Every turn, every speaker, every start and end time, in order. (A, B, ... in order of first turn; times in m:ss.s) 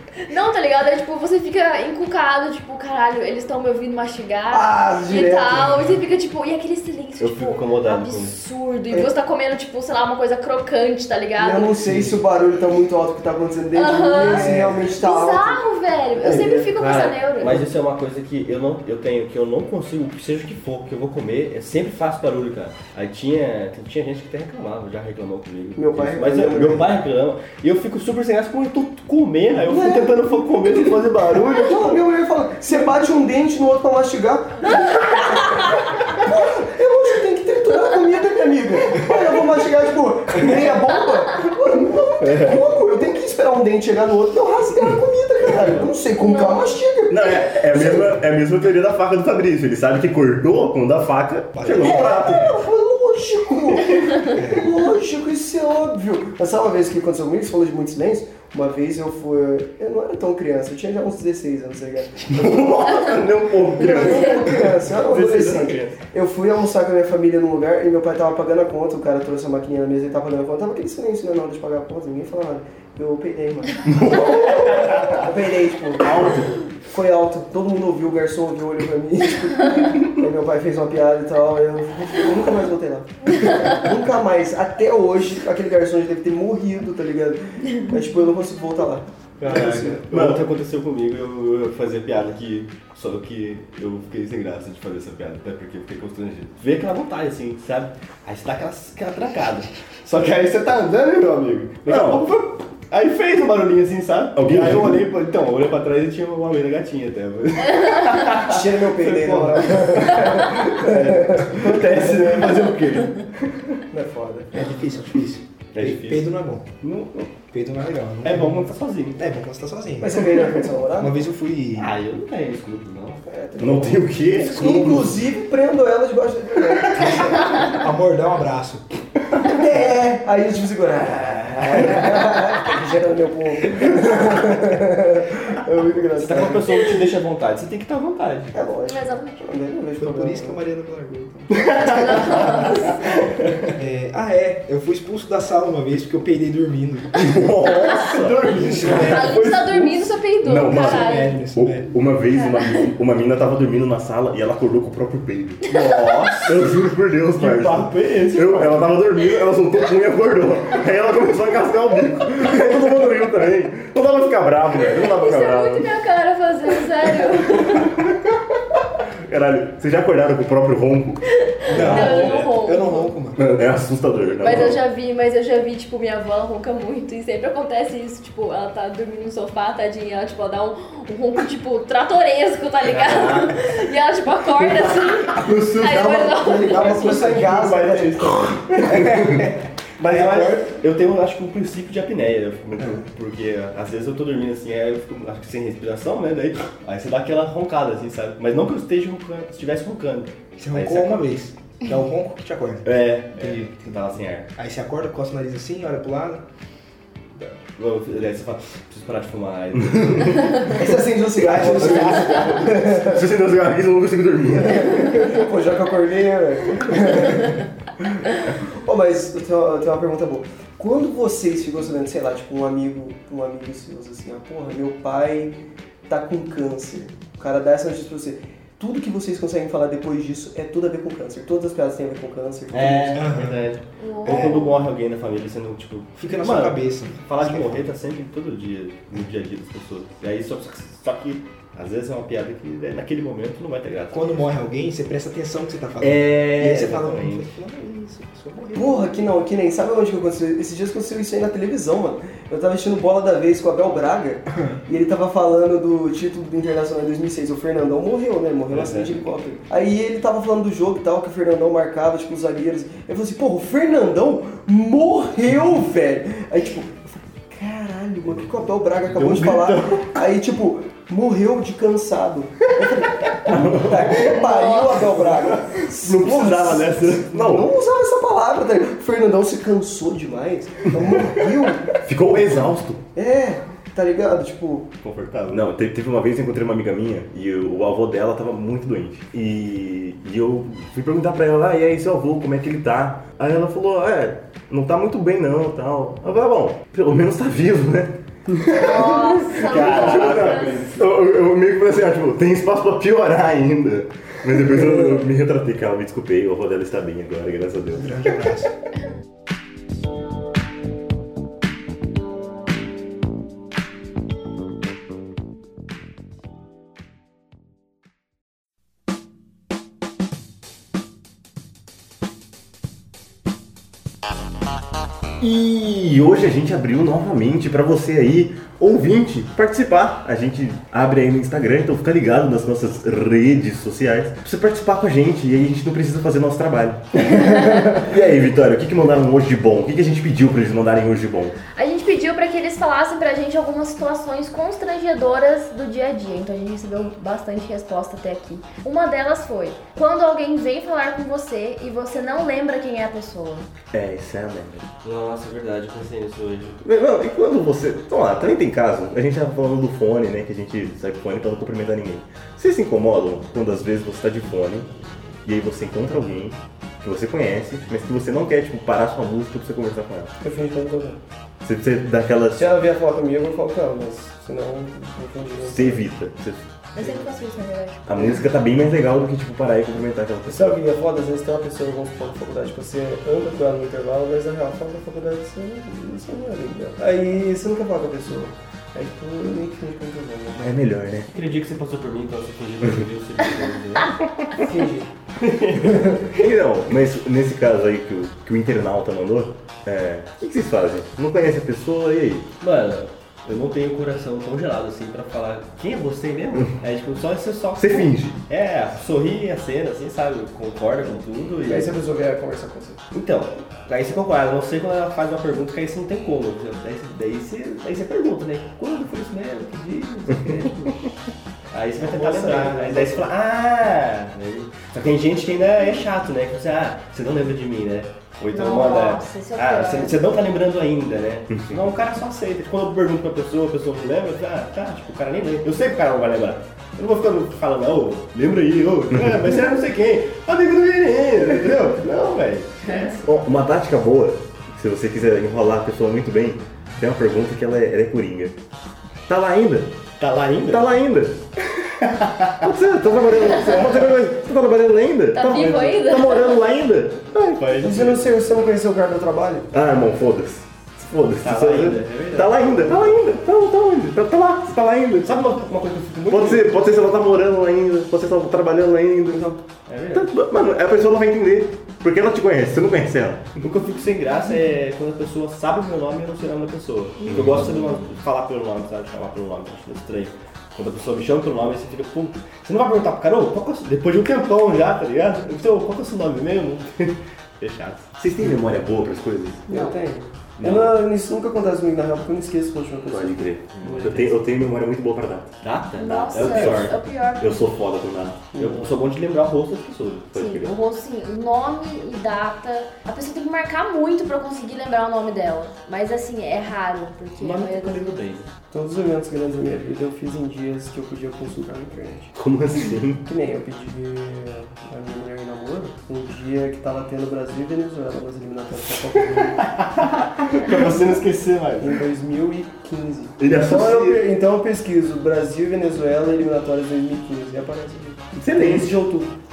0:00.3-0:11.7 A
0:04.5-0:05.9 B
0:07.2-0:08.4 C
0:11.4-0:15.6 B
0:13.7-0:17.7 A
0:14.2-0:14.9 D
0:16.2-0:16.8 B
0:16.8-0:32.0 C
0:25.8-0:26.9 B
0:29.6-0:48.1 B
0:42.2-0:42.5 C
0:46.3-0:46.6 A
0:47.1-0:52.5 E
0:51.6-0:52.4 D
0:51.8-1:03.2 B
0:54.3-0:54.7 D
1:02.3-1:04.6 E
1:03.8-1:16.4 B
1:04.9-1:06.0 C
1:13.9-1:15.3 E
1:16.0-1:16.6 E
1:16.9-1:30.0 B
1:29.4-1:53.8 C
1:30.1-1:30.4 E
1:41.9-1:42.3 E
1:44.4-1:45.1 E
1:48.4-1:52.7 B
1:53.9-1:54.6 B
1:54.5-1:56.7 D
1:55.7-1:56.3 C
1:56.8-1:57.3 C
1:57.5-2:00.5 D
1:58.2-1:59.2 C
2:00.0-2:01.3 B
2:01.0-2:01.9 D
2:01.8-2:03.2 C
2:03.3-2:07.6 B
2:03.6-2:05.0 E
2:04.5-2:05.2 D
2:07.0-2:08.8 D
2:09.4-2:16.9 B
2:16.1-2:18.6 C
2:18.5-2:20.6 B
2:18.9-2:19.4 A
2:20.0-2:21.8 D
2:21.5-2:22.1 C
2:21.8-2:22.9 A
2:23.8-2:27.2 D
2:27.1-2:29.4 E
2:27.6-2:28.1 A
2:28.1-2:29.8 C
2:28.6-2:29.5 D
2:29.0-2:31.4 A
2:30.4-2:35.7 E
2:30.7-2:31.9 D
2:32.4-2:32.9 A
2:35.7-2:36.6 C
2:36.4-2:45.9 E
2:37.4-2:38.9 C
2:45.0-2:47.9 A
2:49.3-2:51.2 E
2:51.7-2:53.4 D
2:51.7-2:53.1 A
2:51.8-2:52.4 C
2:51.8-2:52.2 E
2:53.4-2:54.8 E
2:54.4-3:07.2 A
3:02.9-3:03.6 C
3:05.4-3:08.4 B
3:06.8-3:09.4 C
3:06.9-3:07.7 D
3:08.8-3:10.8 D
3:10.0-3:21.3 C
3:20.6-3:24.0 D
3:22.8-3:24.5 C
3:24.6-3:26.4 D
3:27.8-3:30.8 C
3:30.0-3:30.3 E
3:30.7-3:33.3 B
3:31.4-3:32.6 D
3:31.5-3:32.6 C
3:33.1-3:35.1 E
3:34.6-3:37.6 B
3:38.6-3:45.6 B
3:46.1-3:53.3 B
3:52.7-4:04.4 C
3:53.1-3:53.7 D
3:54.0-3:54.8 A
3:54.3-3:54.6 D
3:56.2-3:57.8 D
4:04.1-4:09.1 D
4:06.0-4:07.5 C
4:08.8-4:42.0 B
4:18.7-4:19.1 C
4:29.1-4:30.1 C
4:33.5-4:34.4 E
4:34.2-4:35.0 A
4:36.1-4:37.2 C
4:36.1-4:37.7 E
4:42.0-4:43.0 E
4:43.2-4:44.9 B
4:45.0-4:45.6 C
4:45.5-5:08.5 E
4:58.7-5:00.8 A
4:59.6-5:01.0 C
5:07.9-5:08.7 D
5:25.4-5:41.6 E
5:41.7-5:53.7 A
5:53.9-5:54.9 E
5:55.0-5:56.8 C
5:56.8-6:04.9 E
6:05.4-6:10.3 E
6:10.4-6:11.2 B
6:11.6-6:12.7 E
6:12.6-6:16.1 B
6:15.6-6:16.7 E
6:17.0-6:18.3 A
6:17.0-6:17.3 B
6:18.1-6:20.8 E
6:18.2-6:18.4 B
6:20.5-6:30.8 B
6:30.6-6:31.3 E
6:31.3-6:34.1 C
6:34.6-6:35.1 B
6:35.4-6:36.1 C
6:35.8-6:36.2 B
6:36.4-6:42.5 E
6:42.6-6:51.9 C
6:47.8-6:48.4 E
6:51.7-6:53.0 B
6:53.1-7:01.0 C
7:01.7-7:23.2 C
7:02.0-7:03.3 B
7:08.5-7:10.2 A
7:11.5-7:11.8 E
7:19.2-7:19.6 E
7:23.1-7:28.6 E
7:29.3-7:29.9 E
7:30.2-7:30.9 C
7:30.7-7:31.4 E
7:32.2-7:32.6 C
7:32.6-7:37.7 E
7:33.6-7:34.1 C
7:35.3-7:36.6 A
7:37.6-7:38.3 C
7:37.8-7:39.7 B
7:39.7-7:45.4 E
7:41.4-7:43.2 C
7:45.2-7:46.8 C
7:46.3-7:49.6 E
7:49.9-7:50.3 C
7:50.1-7:53.6 E
7:53.6-8:08.2 C
7:57.2-7:57.7 E
8:08.2-8:09.7 E
8:09.7-8:14.3 B
8:10.6-8:10.9 C
8:13.1-8:15.6 E
8:13.8-8:14.3 C
8:15.6-8:16.9 C
8:16.0-8:17.5 A
8:16.3-8:18.5 E
8:18.5-8:19.0 B
8:18.6-8:20.5 C
8:20.3-8:20.7 E
8:20.4-8:28.1 A
8:27.4-8:28.5 C
8:28.7-8:32.3 B
8:32.3-8:33.2 E
8:33.3-8:39.7 B
8:39.6-8:42.0 C
8:40.7-8:41.2 B
8:41.8-8:49.3 B
8:43.4-8:44.2 E
8:48.4-8:49.0 E